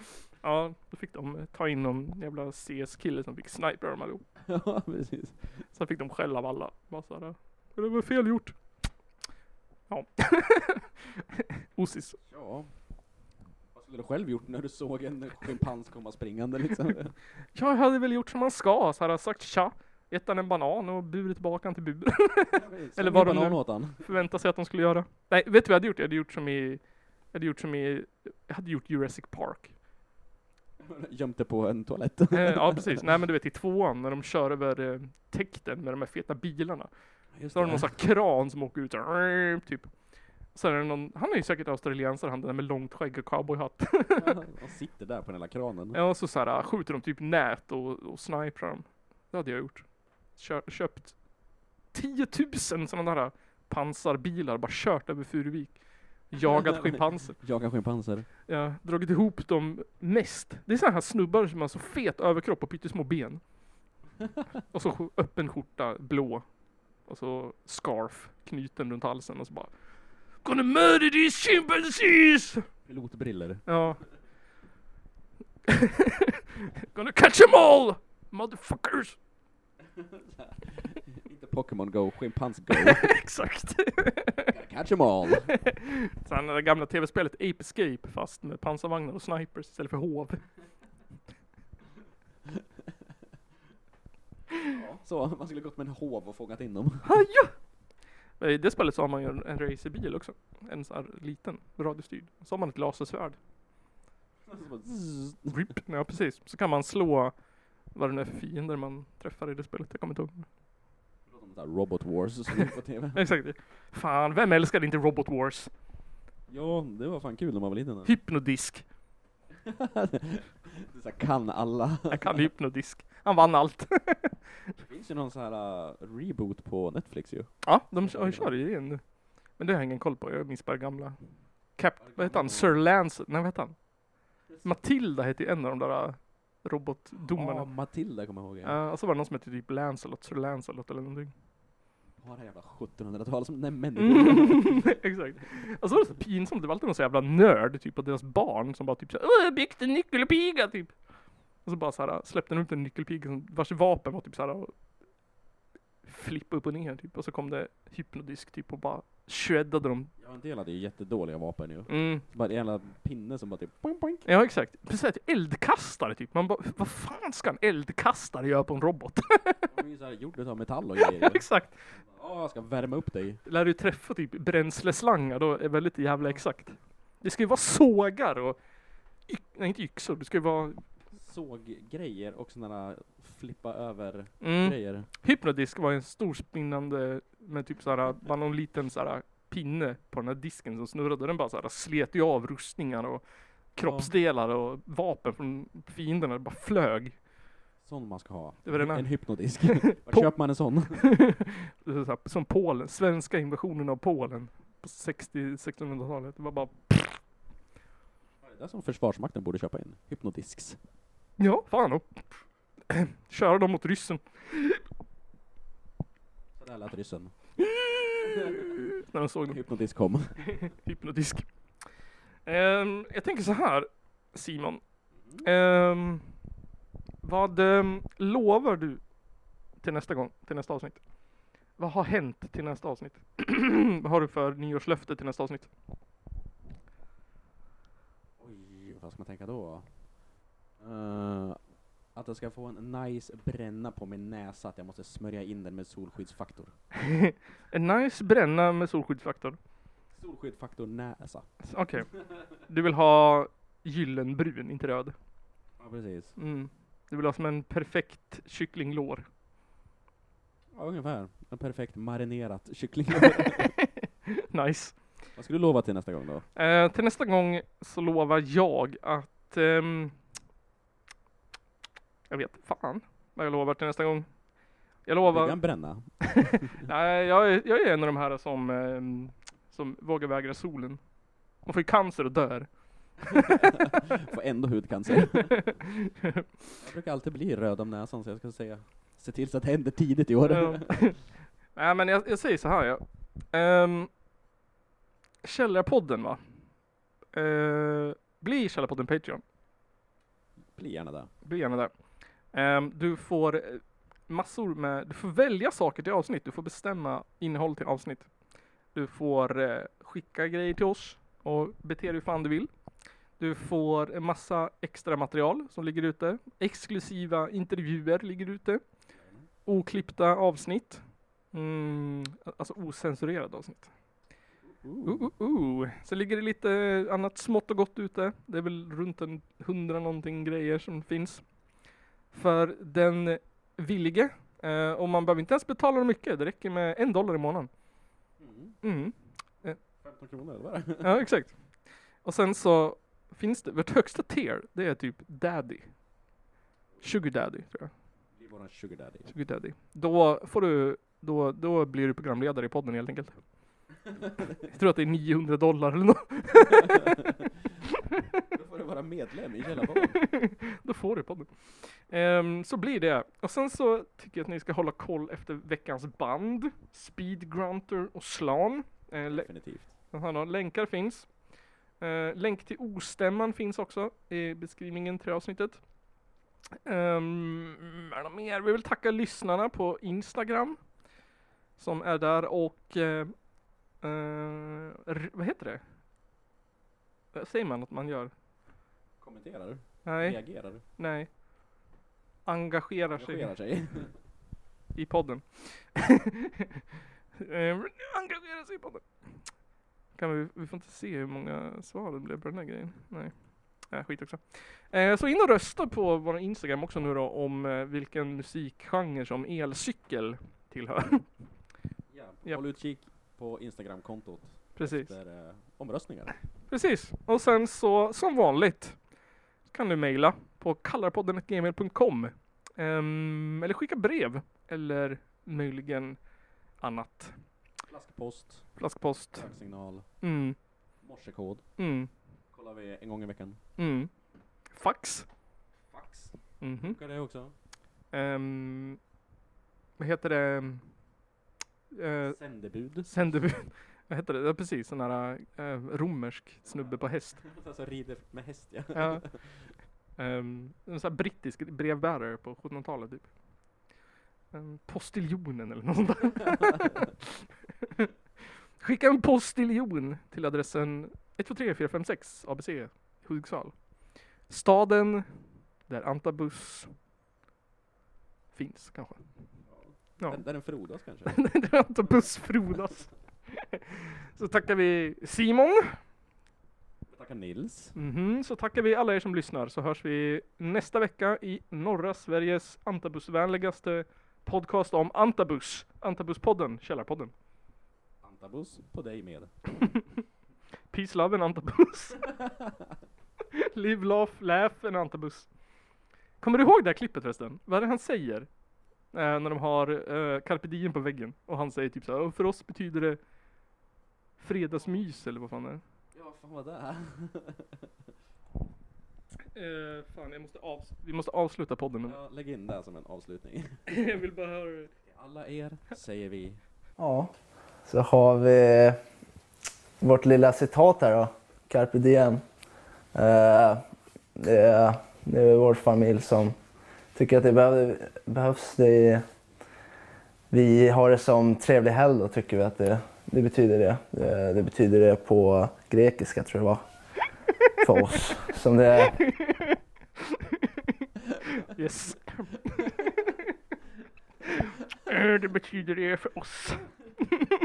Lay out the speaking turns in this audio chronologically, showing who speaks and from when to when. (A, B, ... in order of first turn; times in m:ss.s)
0:00.4-0:04.2 A
0:04.4-0:05.4 B
0:05.7-0:08.6 A
0:09.9-0:12.2 A
0:12.3-0:12.7 B
0:13.7-0:17.2 B
0:17.5-0:29.7 A
0:22.5-0:24.0 B
0:30.8-0:33.0 B
0:32.3-0:36.9 A
0:37.3-0:38.0 B
0:37.5-0:39.9 A
0:40.5-0:44.4 A
0:44.2-0:46.0 B
0:45.9-0:51.2 A
0:51.9-0:57.4 A
0:56.4-0:58.3 B
0:58.5-1:03.4 A
1:04.7-1:06.4 A
1:07.0-1:09.7 A
1:10.4-1:12.7 A
1:12.9-1:13.7 B
1:13.7-1:14.0 A
1:15.7-1:19.2 A
1:20.0-1:23.1 B
1:22.7-1:24.5 A
1:24.5-1:25.6 B
1:25.7-1:30.4 A
1:34.7-1:37.1 B
1:37.0-1:37.6 A
1:38.4-1:43.4 A
1:44.4-1:45.7 B
1:45.5-1:47.4 A
1:47.9-1:50.5 A
1:51.3-1:53.3 B
1:53.1-1:55.7 A
1:56.5-1:58.1 B
1:58.0-1:58.8 A
1:59.6-2:02.4 B
2:02.1-2:04.6 A
2:04.8-2:08.6 B
2:07.6-2:11.2 A
2:11.7-2:13.8 A
2:12.0-2:12.8 B
2:14.5-2:14.8 B
2:14.6-2:17.7 A
2:17.3-2:18.8 B
2:18.6-2:21.3 A
2:22.2-2:25.0 B
2:24.0-2:31.0 A
2:31.6-2:34.7 A
2:36.0-2:40.1 A
2:40.2-2:44.2 B
2:41.9-2:42.2 A
2:44.3-2:49.7 A
2:49.7-2:53.4 B
2:51.0-2:51.8 A
2:53.4-2:58.6 A
2:59.3-3:00.8 A
3:01.1-3:05.1 B
3:04.4-3:17.2 A
3:13.8-3:14.1 B
3:17.8-3:21.1 B
3:18.6-3:20.4 A
3:20.9-3:27.2 A
3:28.4-3:30.8 B
3:31.4-3:32.3 A
3:32.9-3:34.8 A
3:36.6-3:37.4 B
3:37.6-3:39.6 A
3:38.2-3:38.8 B
3:39.5-3:40.6 B
3:40.5-3:41.5 A
3:42.4-3:44.8 A
3:45.1-3:45.5 B
3:45.4-3:46.3 A
3:47.2-3:49.0 A
3:49.8-3:51.0 A
3:51.8-3:55.7 A
3:58.4-3:59.9 B
4:00.8-4:01.6 B
4:02.1-4:06.7 B
4:07.0-4:09.6 A
4:10.1-4:11.5 B
4:11.6-4:15.1 A
4:15.8-4:16.4 B
4:16.4-4:19.3 A
4:20.7-4:23.7 B
4:24.3-4:25.0 A
4:25.4-4:26.4 B
4:26.6-4:30.1 A
4:32.3-4:34.3 A
4:35.0-4:35.6 A
4:35.2-4:36.9 B
4:36.8-4:41.0 A
4:41.6-4:42.7 A
4:43.3-4:43.7 A
4:43.5-4:45.7 B
4:45.6-4:46.4 A
4:46.8-4:51.2 B
4:50.4-4:51.2 A
4:51.7-4:54.1 A
4:55.4-4:56.4 A
4:57.3-4:59.4 A
5:00.7-5:01.3 B
5:01.4-5:01.9 A
5:02.5-5:08.3 A
5:08.9-5:12.7 A
5:13.4-5:18.8 A
5:19.1-5:19.5 B
5:19.7-5:23.9 A
5:24.6-5:25.3 B
5:25.0-5:31.5 A
5:32.3-5:37.7 A
5:38.4-5:38.8 B
5:38.8-5:39.8 A
5:40.0-5:41.3 B
5:41.0-5:46.0 A
5:47.0-5:47.9 A
5:48.3-5:49.3 B
5:49.3-5:53.4 A
5:54.6-5:57.1 A
5:56.8-5:57.1 B
5:58.5-6:00.2 B
6:00.1-6:09.5 A
6:09.3-6:09.9 B
6:10.0-6:11.3 A
6:12.0-6:15.8 A
6:16.9-6:20.8 A
6:21.8-6:23.4 A
6:24.0-6:25.8 A
6:27.3-6:28.3 A
6:29.2-6:30.8 B
6:30.0-6:31.3 A
6:32.4-6:33.5 A
6:33.1-6:34.1 B
6:35.0-6:36.6 A
6:37.4-6:39.4 A
6:40.1-6:51.3 A
6:52.1-6:56.4 B
6:54.8-6:55.1 A
6:56.7-6:59.0 A
6:59.7-7:06.2 A
7:06.8-7:07.4 A
7:07.9-7:08.8 B
7:08.8-7:09.5 A
7:09.3-7:10.1 B
7:10.2-7:10.6 A
7:11.0-7:11.7 B
7:11.8-7:12.1 A
7:12.5-7:13.6 B
7:13.8-7:14.1 A
7:14.7-7:15.3 A
7:15.9-7:17.5 B
7:16.6-7:17.0 A
7:18.1-7:19.0 A
7:20.0-7:20.8 A
7:21.9-7:22.4 A
7:22.2-7:23.1 B
7:23.1-7:27.4 A
7:26.6-7:29.7 B
7:28.9-7:29.2 A
7:30.2-7:33.3 A
7:34.5-7:38.1 A
7:38.8-7:43.8 A
7:44.5-7:45.3 A
7:45.9-7:46.9 A
7:48.5-7:49.2 A
7:49.7-7:51.5 B
7:50.2-7:50.4 A
7:51.3-7:56.0 A
7:57.1-7:58.0 B
7:58.0-8:07.3 A
8:08.2-8:09.5 B
8:10.9-8:12.2 A
8:13.5-8:15.5 A
8:16.4-8:18.5 A
8:19.1-8:23.2 A
8:24.4-8:25.8 A
8:24.8-8:25.1 B
8:26.1-8:27.9 B
8:29.5-8:32.2 A
8:32.0-8:33.8 B
8:33.9-8:34.9 A
8:35.0-8:36.6 B
8:37.0-8:37.3 C
8:37.8-8:39.0 C
8:40.0-8:42.4 C
8:43.1-8:43.8 C
8:44.4-8:46.6 C
8:47.2-8:49.2 C
8:50.5-8:56.8 C
8:57.8-8:59.2 C
8:59.1-8:59.8 A
9:01.5-9:03.5 A
9:04.5-9:06.9 A